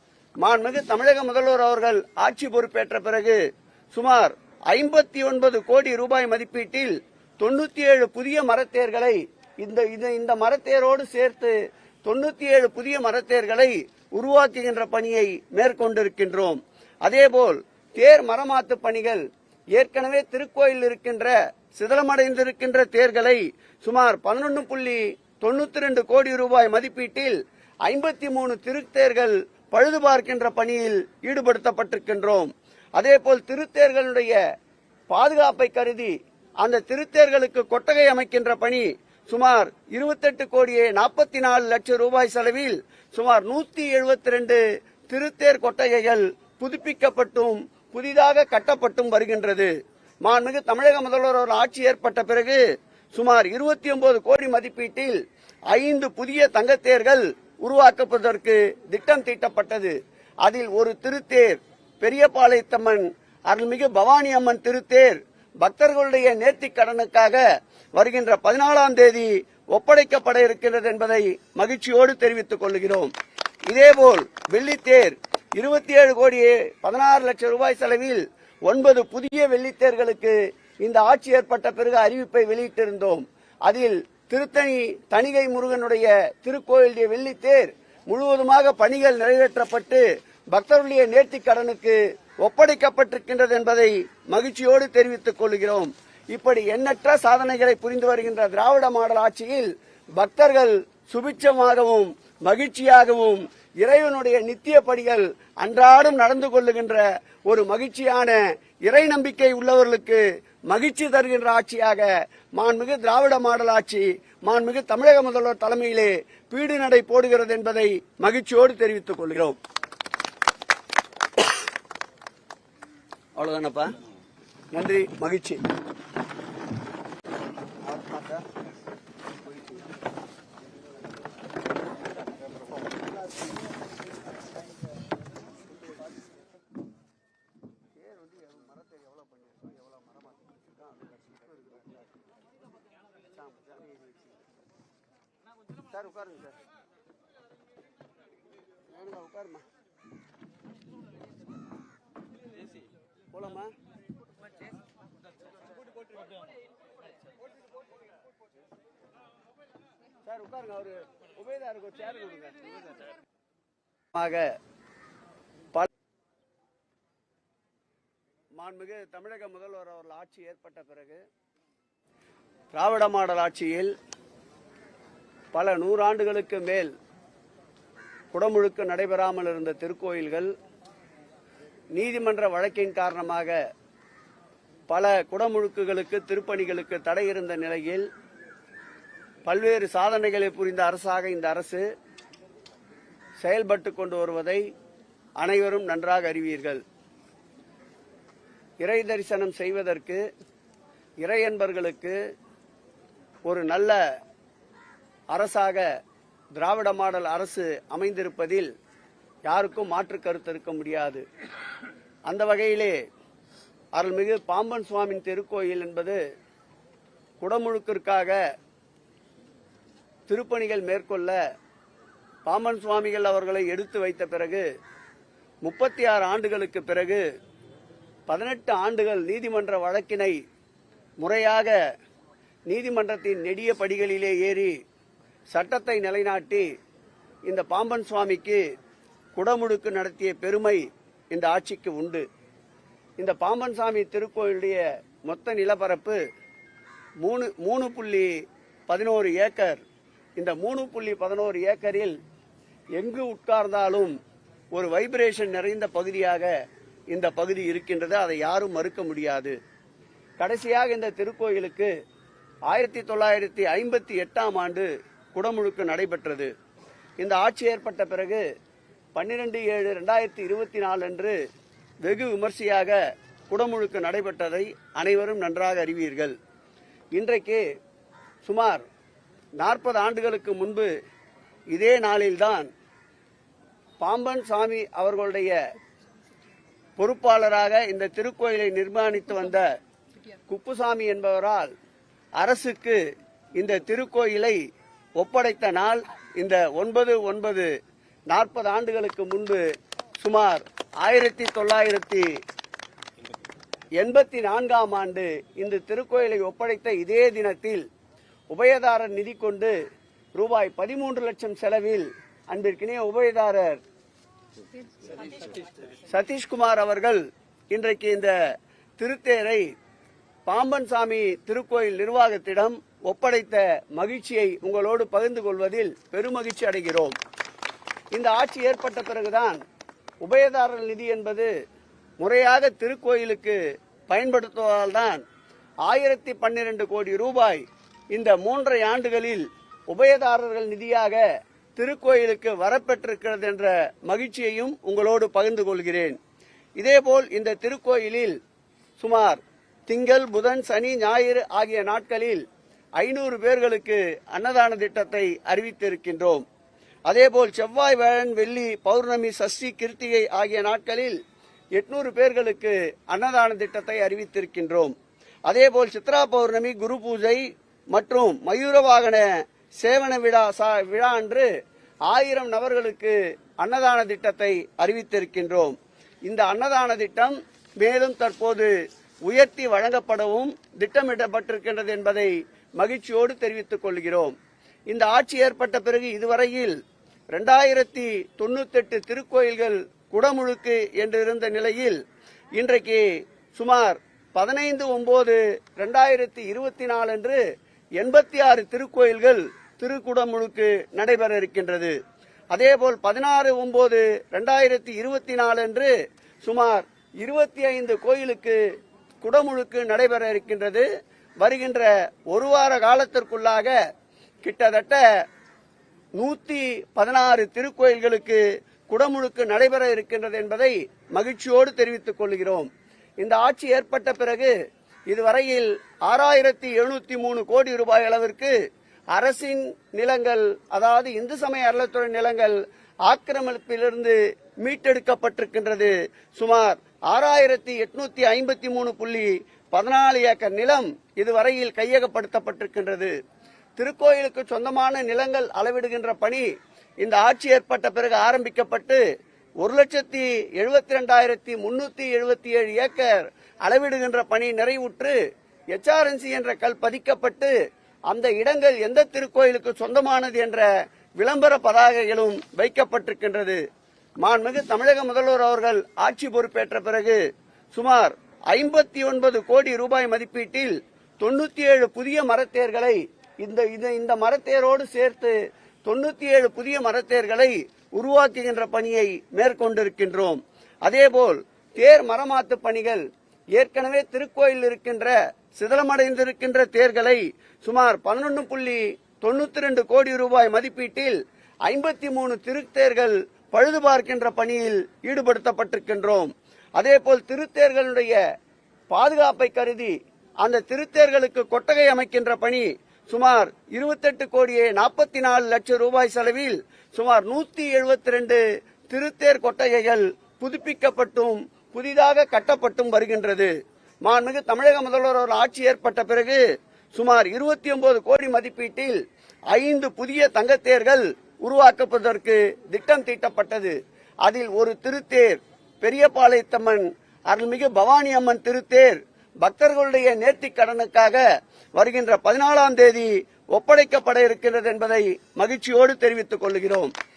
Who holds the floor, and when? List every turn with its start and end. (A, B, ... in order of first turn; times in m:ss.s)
0:00.4-0:03.4 A
0:03.9-0:34.4 A
0:35.1-0:49.7 A
0:50.2-0:52.6 A
0:53.1-0:55.2 A
0:55.7-1:07.4 A
1:08.0-1:13.1 A
1:13.7-1:59.6 A
2:03.4-2:04.0 A
2:04.7-2:05.6 A
2:07.8-2:08.4 A
2:09.5-2:09.8 A
2:18.0-2:22.0 A
2:23.3-2:24.3 A
2:25.8-2:26.6 A
2:28.9-2:29.6 A
2:33.3-2:33.7 A
2:40.2-2:43.0 A
2:44.1-2:44.6 A
2:48.6-2:51.2 A
2:52.7-2:53.9 A
2:55.5-2:56.9 A
2:58.3-3:00.5 A
3:01.9-3:03.6 A
3:04.9-3:08.1 A
3:09.4-3:11.8 A
3:13.4-3:14.6 A
3:15.4-3:16.8 A
3:18.8-3:20.2 A
3:21.2-3:22.2 A
3:23.4-3:24.0 A
3:25.3-3:25.9 A
3:26.6-3:28.7 A
3:29.5-3:31.2 A
3:32.3-3:33.0 A
3:33.9-3:36.2 A
3:37.4-3:38.4 A
3:40.3-3:41.4 A
3:42.4-3:44.6 A
3:45.6-3:47.2 A
3:48.3-3:50.4 A
3:51.2-3:51.7 A
3:52.7-3:54.8 A
3:55.5-3:56.7 A
3:57.5-3:58.6 A
3:59.4-4:02.2 A
4:03.2-4:06.2 A
4:07.2-4:08.3 A
4:08.9-4:09.8 A
4:10.4-4:12.2 A
4:13.0-4:14.1 A
4:14.7-4:16.5 A
4:17.1-4:19.6 A
4:20.4-4:21.9 A
4:22.7-4:26.5 A
4:27.2-4:28.4 A
4:29.2-4:31.4 A
4:32.0-4:33.0 A
4:33.5-4:36.3 A
4:37.1-4:37.6 A
4:38.4-4:38.8 A
4:39.6-4:40.9 A
4:41.7-4:42.7 A
4:44.0-4:45.6 A
4:47.0-4:49.7 A
4:50.5-4:51.7 A
4:52.4-4:53.0 A
4:53.6-4:54.6 A
4:55.2-4:57.7 A
4:58.3-4:59.6 A
5:00.2-5:02.3 A
5:04.0-5:07.8 A
5:08.5-5:09.7 A
5:10.4-5:13.8 A
5:16.0-5:18.3 A
5:19.0-5:19.7 A
5:20.5-5:27.2 A
5:28.1-5:29.6 A
5:30.2-5:31.5 A
5:32.2-5:33.6 A
5:34.1-5:35.2 A
5:35.8-5:41.2 A
5:41.8-5:46.2 A
5:46.8-5:48.4 A
5:49.0-5:52.4 A
5:53.0-5:56.4 A
5:57.1-6:01.2 A
6:01.8-6:04.9 A
6:05.5-6:09.3 A
6:09.8-6:11.5 A
6:12.1-6:18.7 A
6:19.2-6:24.3 A
6:24.9-6:26.8 A
6:27.3-6:32.0 A
6:32.6-6:37.4 A
6:38.0-6:42.0 A
6:42.5-6:45.9 A
6:46.4-6:48.6 A
6:49.2-6:50.8 A
6:51.4-6:53.7 A
6:54.4-6:55.0 A
6:56.2-7:02.7 A
7:03.2-7:04.5 A
7:05.1-7:08.5 A
7:09.1-7:23.1 A
7:23.8-7:26.4 A
7:27.0-7:29.0 A
7:29.6-7:35.2 A
7:35.7-7:37.5 A
7:38.1-7:40.7 A
7:41.2-7:43.6 A
7:44.2-7:47.2 A
7:47.7-8:03.0 A
8:03.5-8:18.2 A
8:18.9-8:33.5 A
8:34.0-8:36.4 A
8:36.9-8:39.0 A
8:39.5-8:51.2 A
8:51.8-8:56.9 A